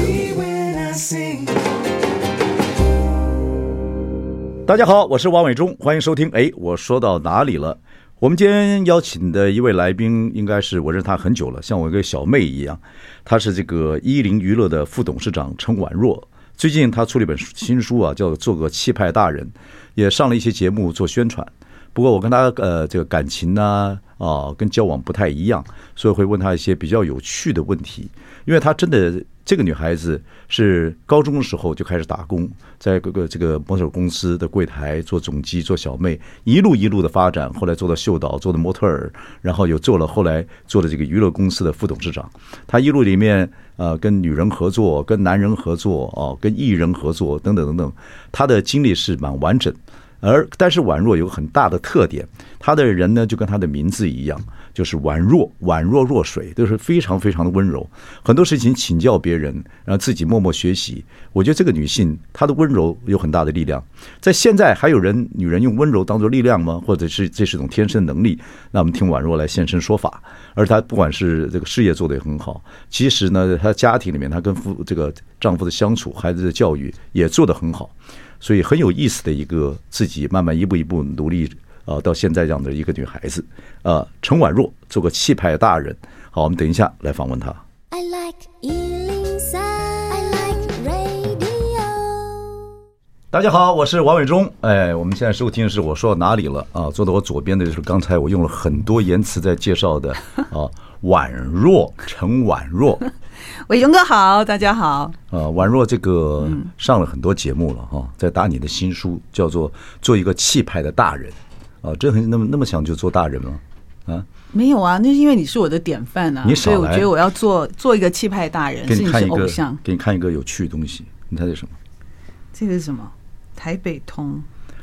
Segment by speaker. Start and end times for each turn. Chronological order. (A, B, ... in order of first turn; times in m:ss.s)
0:04.6-1:27.6 A
1:27.9-1:32.7 B
1:33.3-1:43.0 A
1:43.7-1:45.2 C
1:45.3-1:54.3 A
1:54.5-1:59.8 C
1:56.4-1:57.1 A
1:58.8-2:01.8 A
2:02.5-2:04.4 C